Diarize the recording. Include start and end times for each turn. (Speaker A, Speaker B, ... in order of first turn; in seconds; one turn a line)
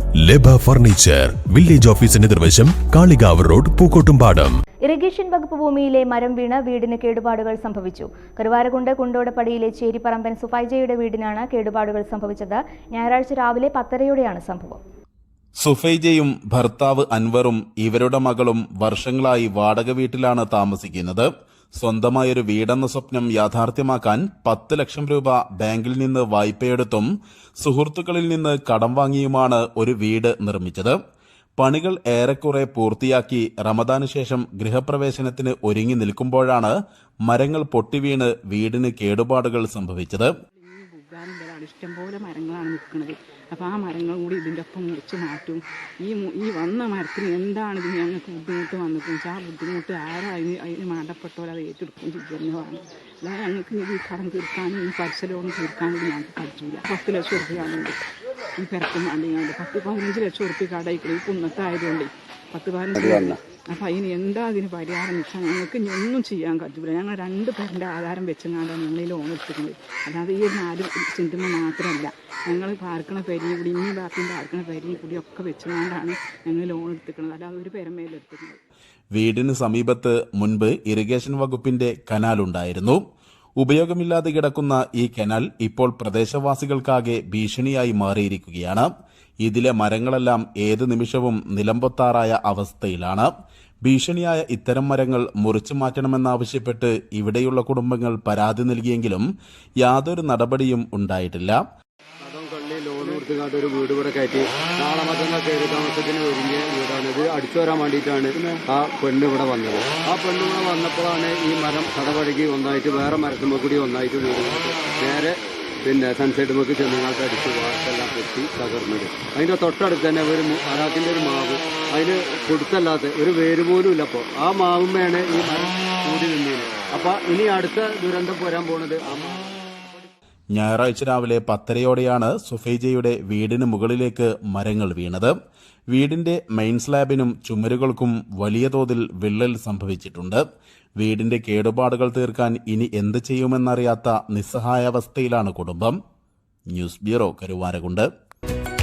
Speaker A: 0.2-4.5
Speaker B: 4.9-14.8
Speaker C: 15.6-27.1
Speaker C: 27.6-31.0
Speaker C: 31.6-36.7
Speaker C: 37.2-40.3
Speaker D: 40.5-58.0
Speaker D: 58.6-78.6
Speaker E: 63.0-63.3
Speaker C: 79.1-83.0
Speaker C: 83.6-88.9
Speaker C: 89.4-93.3
Speaker C: 93.8-99.3
Speaker C: 99.8-101.6
Speaker E: 102.2-130.1
Speaker C: 130.5-135.3
Speaker C: 135.9-140.4
Speaker C: 141.0-146.0
Speaker C: 146.7-148.1